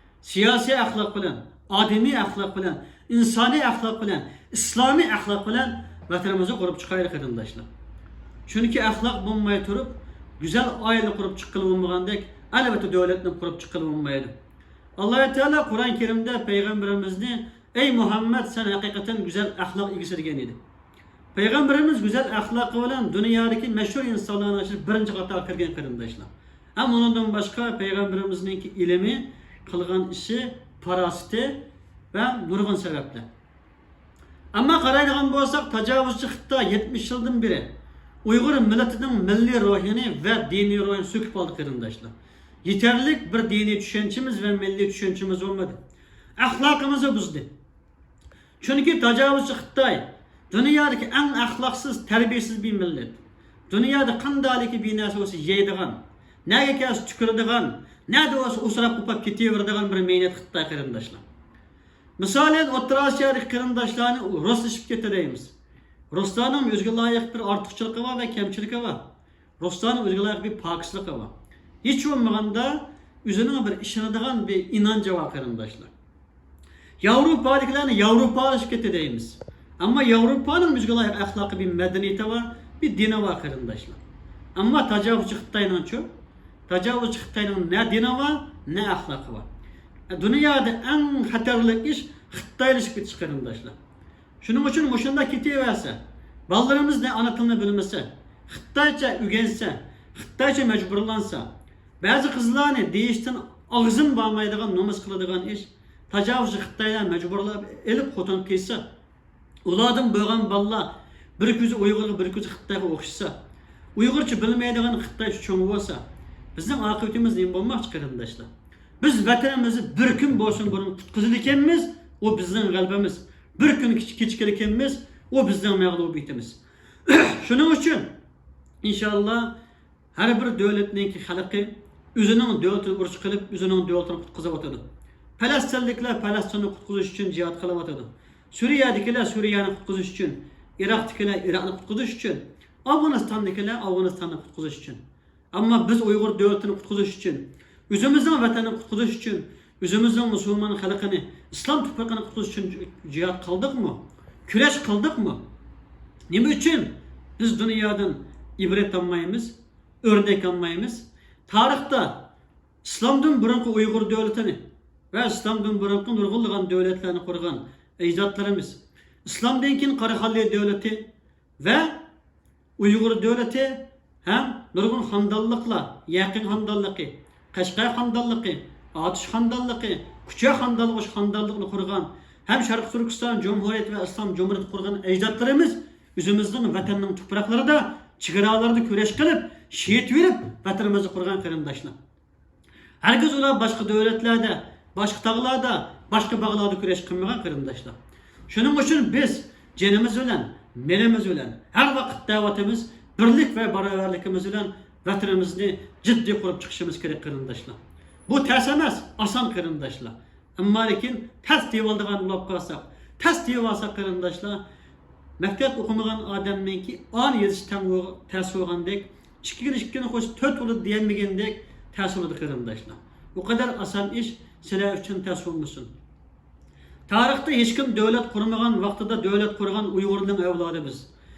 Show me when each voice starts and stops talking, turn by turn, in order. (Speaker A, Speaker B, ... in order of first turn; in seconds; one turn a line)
Speaker A: 0.2-7.7
Speaker A: 8.5-14.3
Speaker A: 15.0-20.6
Speaker A: 21.3-31.6
Speaker A: 32.1-33.3
Speaker A: 34.5-37.7
Speaker A: 38.2-42.1
Speaker A: 42.6-45.8
Speaker A: 46.4-47.5
Speaker A: 48.6-53.2
Speaker A: 53.7-61.2
Speaker A: 62.2-65.5
Speaker A: 66.1-69.0
Speaker A: 69.6-71.3
Speaker A: 71.8-75.9
Speaker A: 77.0-84.0
Speaker A: 84.5-86.1
Speaker A: 86.7-89.5
Speaker A: 90.1-93.8
Speaker A: 94.4-101.5
Speaker A: 102.0-108.8
Speaker A: 109.6-113.3
Speaker A: 114.0-116.0
Speaker A: 116.5-118.5
Speaker A: 119.0-128.1
Speaker A: 128.8-129.5
Speaker A: 130.1-134.8
Speaker A: 135.4-145.0
Speaker A: 145.5-155.4
Speaker A: 156.3-162.2
Speaker A: 162.8-164.6
Speaker A: 165.1-171.1
Speaker A: 171.6-172.0
Speaker A: 172.8-191.9
Speaker A: 193.0-197.9
Speaker A: 198.5-214.6
Speaker A: 215.4-225.9
Speaker A: 227.1-231.1